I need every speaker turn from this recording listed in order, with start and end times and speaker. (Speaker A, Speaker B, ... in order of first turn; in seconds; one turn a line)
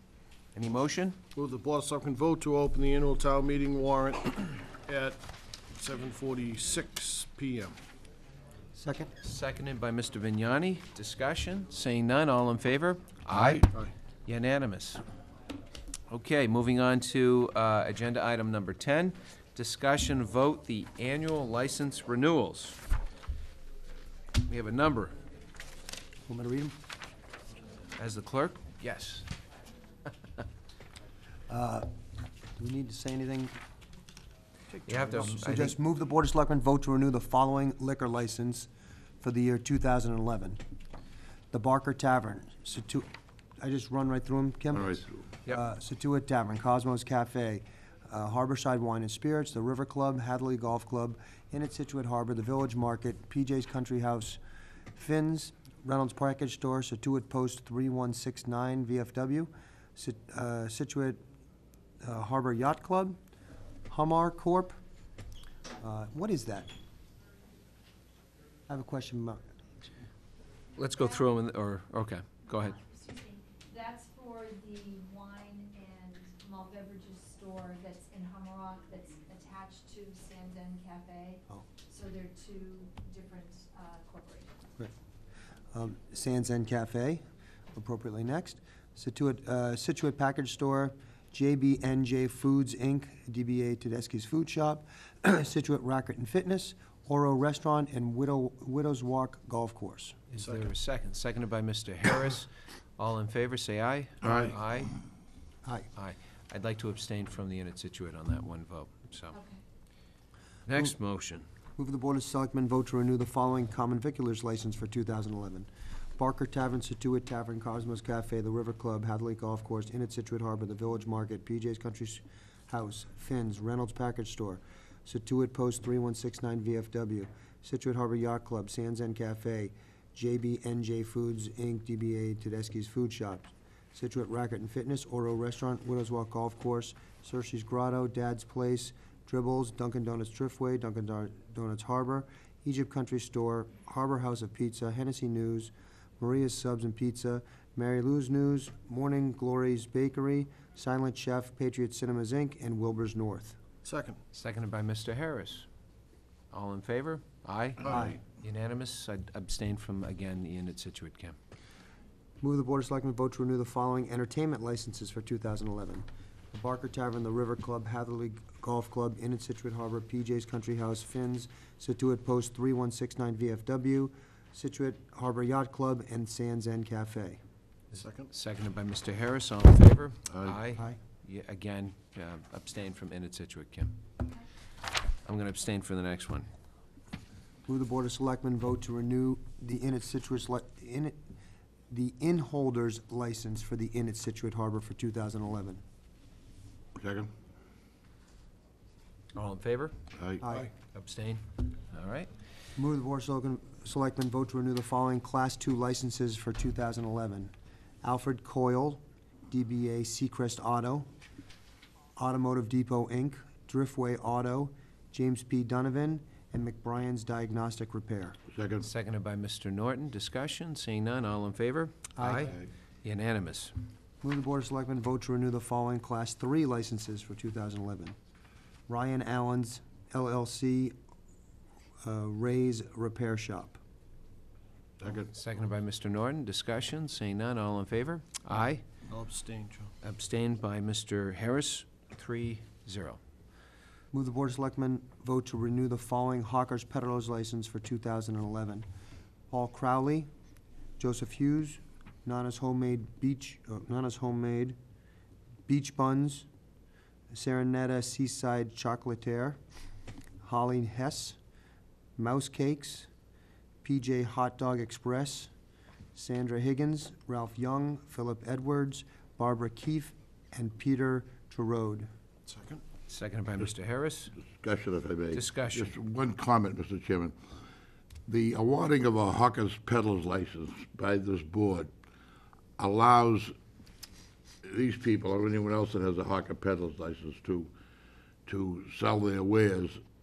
Speaker A: 0.5-1.2
Speaker B: 1.3-5.2
Speaker B: 5.7-7.8
Speaker C: 8.7-9.1
Speaker A: 9.2-13.7
Speaker B: 13.3-13.9
Speaker A: 14.2-15.0
Speaker A: 16.1-22.8
Speaker A: 24.4-25.1
Speaker C: 26.3-26.7
Speaker A: 28.0-29.3
Speaker C: 31.5-31.9
Speaker C: 32.5-33.5
Speaker A: 34.9-35.8
Speaker C: 35.1-38.7
Speaker C: 39.2-40.6
Speaker C: 41.5-43.1
Speaker C: 43.6-54.4
Speaker D: 44.8-45.2
Speaker C: 54.9-61.2
Speaker C: 62.0-63.2
Speaker C: 63.9-64.8
Speaker C: 65.8-66.7
Speaker C: 68.7-69.9
Speaker A: 70.8-72.8
Speaker E: 72.5-84.5
Speaker C: 85.7-87.2
Speaker C: 87.7-100.2
Speaker A: 100.3-104.9
Speaker B: 100.4-100.7
Speaker D: 104.2-104.5
Speaker A: 106.0-109.3
Speaker E: 109.3-109.6
Speaker A: 110.7-111.4
Speaker C: 111.8-153.6
Speaker B: 153.8-154.2
Speaker A: 154.3-155.7
Speaker A: 156.5-161.4
Speaker C: 157.8-158.2
Speaker C: 162.4-177.4
Speaker B: 177.9-178.3
Speaker A: 178.3-183.9
Speaker A: 185.2-186.5
Speaker C: 187.7-191.2
Speaker C: 191.9-195.8
Speaker D: 196.9-197.3
Speaker A: 199.3-199.9
Speaker D: 200.1-200.4
Speaker C: 200.4-200.7
Speaker A: 200.8-202.3
Speaker C: 202.8-211.1
Speaker C: 212.2-218.4
Speaker D: 218.5-218.8
Speaker A: 218.8-223.7
Speaker C: 222.2-222.6
Speaker C: 224.2-228.2
Speaker C: 228.9-230.9
Speaker C: 232.0-233.8
Speaker B: 235.0-235.3
Speaker A: 235.3-238.8
Speaker B: 239.1-239.9
Speaker A: 240.0-243.2
Speaker C: 244.1-248.8
Speaker C: 249.5-250.3
Speaker C: 251.0-254.8
Speaker C: 255.7-256.5
Speaker C: 257.3-259.6
Speaker C: 260.4-261.4
Speaker C: 262.2-263.1
Speaker C: 263.8-265.5
Speaker C: 266.1-272.1
Speaker B: 272.4-272.8
Speaker A: 273.1-274.3
Speaker D: 274.5-277.4
Speaker A: 275.3-275.9
Speaker D: 278.2-281.9
Speaker D: 282.8-283.5
Speaker D: 284.6-287.7
Speaker D: 288.4-290.0